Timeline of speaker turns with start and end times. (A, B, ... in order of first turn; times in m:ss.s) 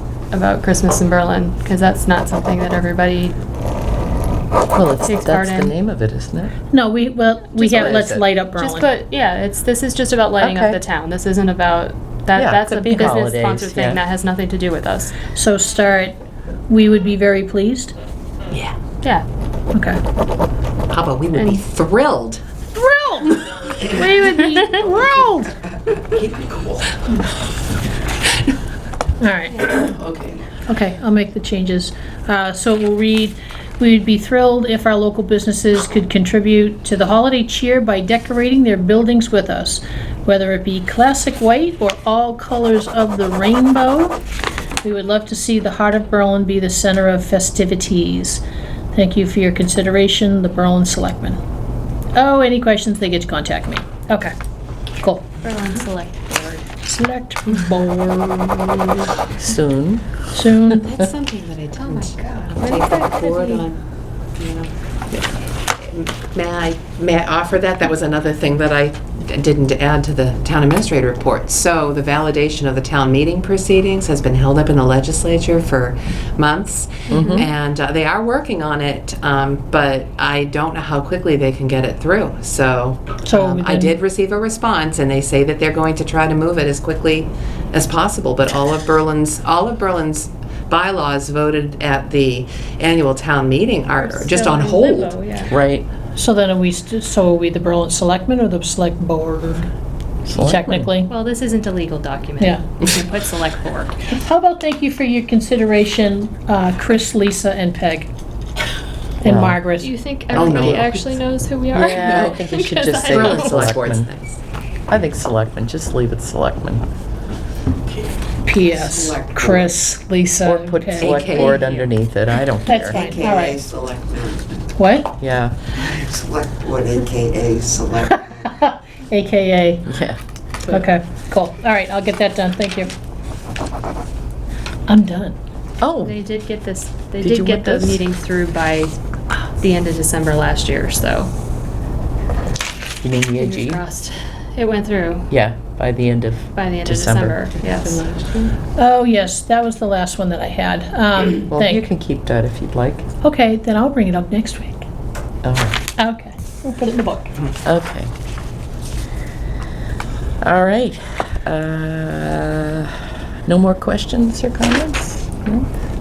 0:00.3-0:03.4 A
0:04.7-0:06.5 B
0:05.0-0:05.7 A
0:06.7-0:08.9 C
0:07.6-0:08.2 B
0:07.6-0:08.0 A
0:08.6-0:15.2 A
0:10.4-0:10.8 B
0:12.3-0:14.0 B
0:15.3-0:17.9 C
0:19.7-0:20.0 C
0:20.9-0:22.4 D
0:21.3-0:21.6 A
0:22.7-0:25.6 C
0:26.2-0:26.8 E
0:29.2-0:29.8 C
0:30.6-0:44.2 C
0:44.8-0:48.4 C
0:48.9-0:51.4 C
0:52.1-0:54.3 C
0:55.0-0:55.4 C
0:55.4-0:56.6 A
0:56.8-0:59.1 C
0:59.4-1:00.7 B
1:00.3-1:00.9 C
1:00.7-1:03.8 D
1:01.8-1:03.6 A
1:04.4-1:35.1 D
1:17.1-1:17.5 B
1:23.2-1:23.9 C
1:34.0-1:35.5 A
1:35.5-1:35.8 B
1:36.2-1:39.7 C
1:40.2-1:40.9 B
1:40.4-1:41.1 C
1:41.1-1:44.0 A
1:44.1-1:48.1 C
1:49.2-1:49.9 C
1:49.2-1:49.6 B
1:49.8-1:53.7 A
1:50.3-1:51.1 D
1:51.7-1:54.1 B
1:53.0-1:54.4 D
1:54.9-1:56.8 B
1:58.4-2:01.4 C
1:58.7-1:59.7 E
2:00.4-2:03.0 B
2:01.0-2:01.8 D
2:02.6-2:03.6 C
2:02.9-2:04.6 E
2:04.8-2:05.1 C
2:05.2-2:05.6 B
2:05.7-2:08.2 E
2:08.1-2:09.9 C
2:09.9-2:10.8 B
2:10.7-2:12.9 C
2:14.9-2:15.4 C
2:15.8-2:16.2 B
2:16.0-2:19.0 A
2:17.2-2:18.0 B
2:19.6-2:21.3 A
2:23.0-2:23.8 B
2:23.4-2:25.3 A
2:25.3-2:28.5 B
2:26.5-2:28.0 A
2:28.7-2:31.8 C
2:31.5-2:33.1 B
2:33.2-2:34.8 C
2:35.4-2:35.8 B
2:36.0-2:37.3 C
2:37.6-2:38.1 B
2:40.4-2:45.7 B